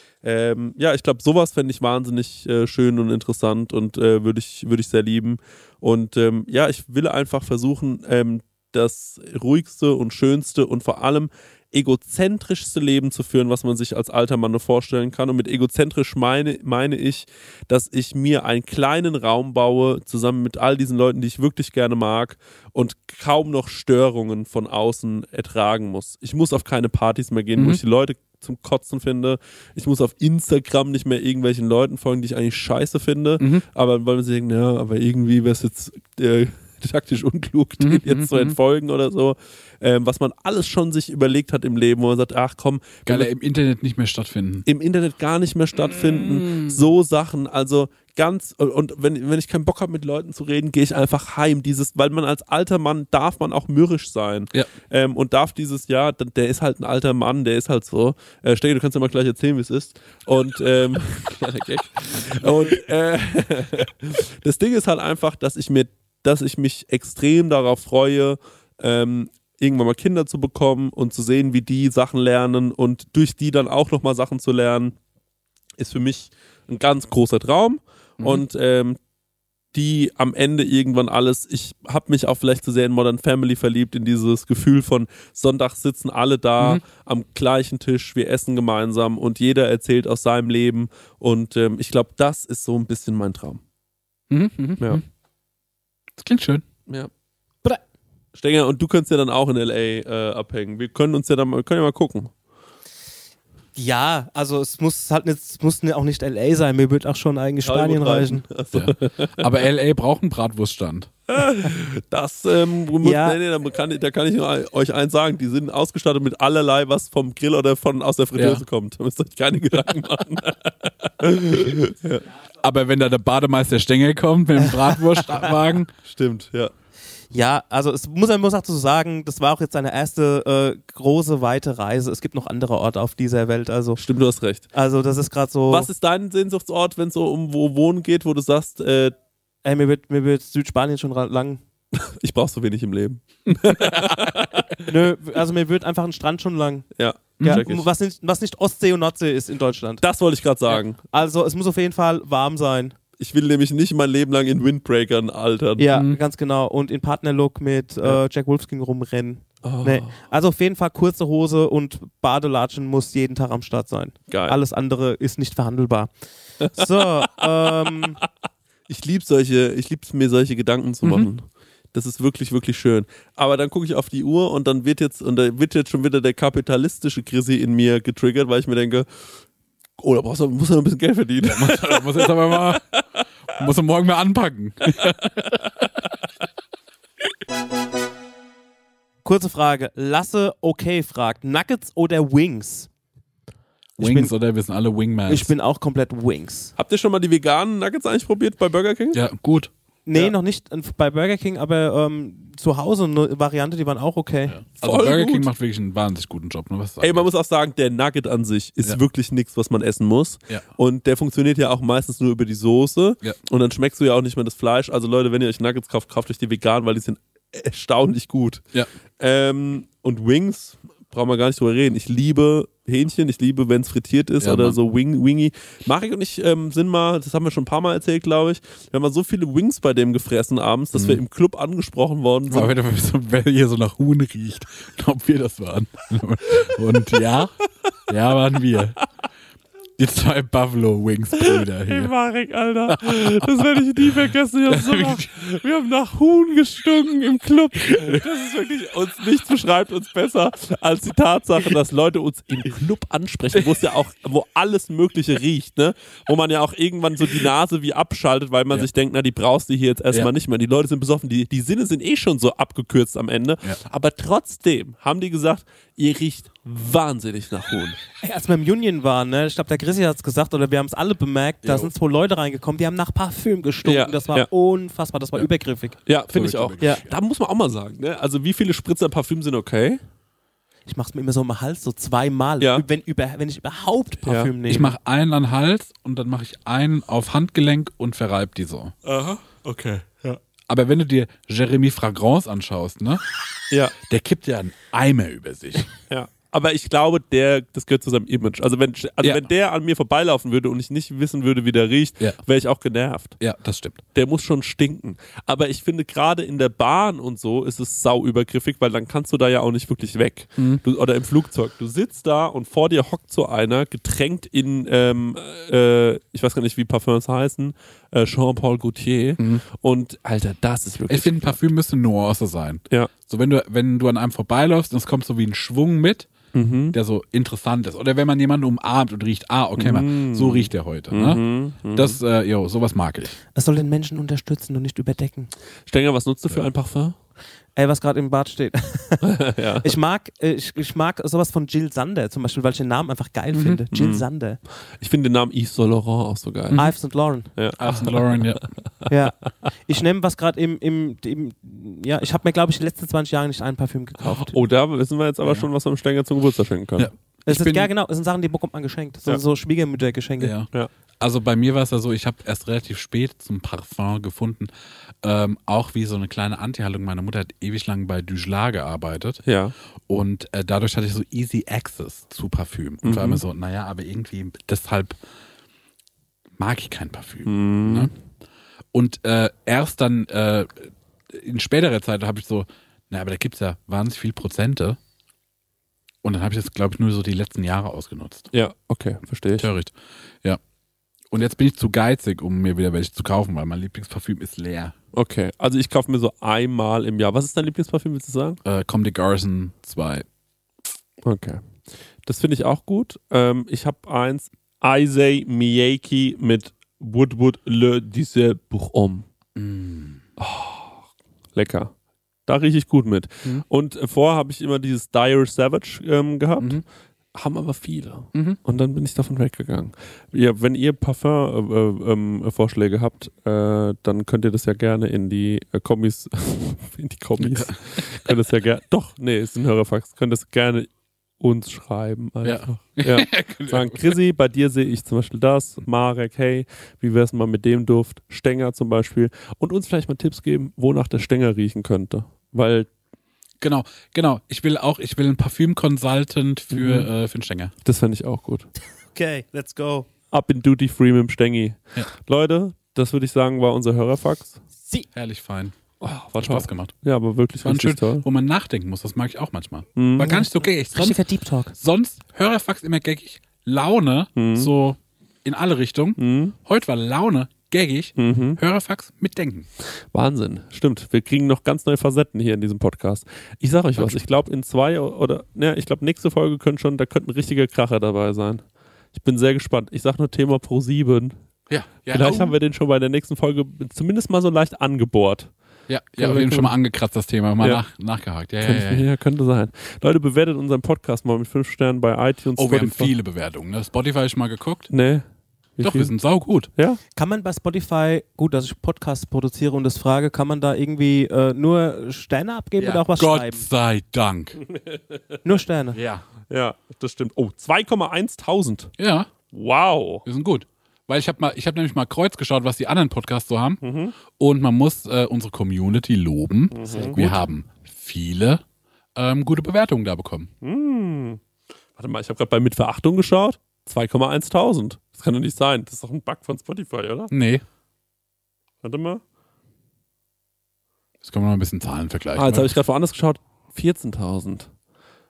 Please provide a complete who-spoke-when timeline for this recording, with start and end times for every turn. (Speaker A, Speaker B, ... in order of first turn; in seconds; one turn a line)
Speaker A: 0.2-43.3
Speaker B: 27.6-27.8
Speaker B: 37.8-38.5
Speaker B: 43.0-44.6
Speaker A: 44.6-75.0
Speaker B: 46.3-46.7
Speaker A: 75.8-79.0
Speaker A: 79.7-93.6
Speaker B: 94.3-95.0
Speaker B: 96.2-96.6
Speaker A: 98.3-102.3
Speaker C: 103.8-108.4
Speaker A: 107.6-109.5
Speaker B: 108.7-111.1
Speaker A: 111.3-122.2
Speaker C: 113.0-113.4
Speaker B: 118.3-118.6
Speaker B: 122.6-125.9
Speaker A: 126.0-126.7
Speaker C: 127.3-134.0
Speaker A: 133.9-134.7
Speaker C: 134.7-135.9
Speaker A: 135.7-139.1
Speaker C: 139.6-141.6
Speaker A: 141.9-144.8
Speaker B: 143.7-144.2
Speaker C: 144.8-146.8
Speaker A: 146.9-147.8
Speaker B: 147.4-147.6
Speaker C: 147.4-150.0
Speaker A: 150.0-151.0
Speaker C: 150.7-152.9
Speaker A: 153.2-155.9
Speaker C: 155.8-166.1
Speaker B: 155.9-156.2
Speaker A: 159.6-160.2
Speaker A: 164.3-164.6
Speaker A: 166.6-167.4
Speaker C: 166.7-168.2
Speaker A: 168.9-179.1
Speaker B: 171.0-171.3
Speaker A: 180.0-183.0
Speaker B: 181.4-182.9
Speaker B: 183.5-185.7
Speaker C: 189.2-192.9
Speaker B: 194.0-195.5
Speaker C: 194.0-194.3
Speaker C: 195.3-196.7
Speaker A: 196.8-199.2
Speaker B: 199.1-199.7
Speaker C: 200.1-204.6
Speaker B: 204.5-207.3
Speaker A: 204.8-205.5
Speaker A: 207.0-218.6
Speaker A: 219.2-232.7
Speaker B: 224.4-224.8
Speaker B: 230.9-231.2
Speaker B: 232.5-237.5
Speaker B: 238.1-239.0
Speaker B: 240.0-242.1
Speaker A: 241.4-268.0
Speaker B: 242.9-243.7
Speaker B: 244.7-245.3
Speaker C: 268.2-276.0
Speaker B: 271.6-271.9
Speaker A: 273.8-274.5
Speaker A: 276.1-280.0
Speaker B: 276.3-277.2
Speaker C: 280.9-284.9
Speaker A: 284.2-284.5
Speaker B: 284.7-288.9
Speaker A: 289.0-290.4
Speaker B: 290.7-293.2
Speaker B: 294.0-295.9
Speaker A: 296.1-303.4
Speaker B: 299.2-299.5
Speaker B: 303.4-304.0
Speaker A: 304.1-321.6
Speaker B: 321.1-326.3
Speaker A: 326.5-326.9
Speaker B: 326.9-333.4
Speaker A: 329.8-332.2
Speaker C: 333.5-335.5
Speaker A: 335.9-337.1
Speaker C: 337.8-344.6
Speaker A: 339.2-339.9
Speaker B: 343.5-343.8
Speaker A: 343.9-344.2
Speaker A: 345.0-346.9
Speaker C: 346.7-347.5
Speaker A: 347.6-348.6
Speaker B: 347.8-348.6
Speaker C: 349.1-354.5
Speaker A: 354.3-357.1
Speaker B: 357.0-357.9
Speaker C: 357.5-360.5
Speaker B: 360.4-360.7
Speaker B: 361.2-364.7
Speaker B: 365.2-369.4
Speaker A: 369.4-369.7
Speaker B: 370.1-375.2
Speaker A: 373.0-373.4
Speaker B: 376.6-378.1
Speaker A: 377.4-378.1
Speaker B: 378.9-385.0
Speaker B: 386.2-388.5
Speaker A: 388.5-389.7
Speaker B: 389.6-390.6
Speaker B: 391.3-394.9
Speaker A: 395.1-398.6
Speaker B: 398.6-400.2
Speaker A: 401.2-401.6
Speaker A: 402.2-409.2
Speaker B: 409.6-410.2
Speaker A: 410.4-411.0
Speaker A: 411.5-411.9
Speaker A: 412.5-416.8
Speaker A: 417.3-430.9
Speaker B: 418.3-418.6
Speaker B: 427.4-428.4
Speaker A: 431.4-442.9
Speaker B: 432.4-434.2
Speaker B: 443.6-447.7
Speaker A: 446.7-447.1
Speaker A: 447.8-448.7
Speaker C: 449.1-450.1
Speaker A: 450.3-454.6
Speaker B: 455.1-455.8
Speaker A: 456.0-458.2
Speaker B: 456.4-456.9
Speaker B: 457.6-461.2
Speaker A: 460.0-460.4
Speaker C: 460.2-461.7
Speaker B: 461.7-469.7
Speaker A: 464.4-464.7
Speaker A: 466.2-466.5
Speaker A: 468.2-468.6
Speaker A: 470.1-478.6
Speaker A: 479.1-481.3
Speaker B: 481.7-482.6
Speaker A: 482.1-485.5
Speaker B: 485.9-489.1
Speaker A: 486.2-486.7
Speaker A: 488.6-493.1
Speaker B: 492.6-494.9
Speaker A: 494.9-495.2
Speaker A: 495.8-496.1
Speaker B: 495.8-496.7
Speaker C: 497.1-503.6
Speaker B: 502.8-504.6
Speaker A: 504.7-505.2
Speaker C: 505.4-506.0
Speaker B: 505.9-506.2
Speaker A: 506.5-508.9
Speaker B: 509.0-509.3
Speaker A: 509.5-510.2
Speaker B: 510.2-518.6
Speaker A: 513.8-514.1
Speaker A: 516.7-517.4
Speaker B: 519.1-520.5
Speaker A: 520.6-521.4
Speaker A: 522.0-527.3
Speaker B: 527.3-527.6
Speaker A: 528.8-529.2
Speaker B: 531.2-532.8
Speaker A: 532.3-534.7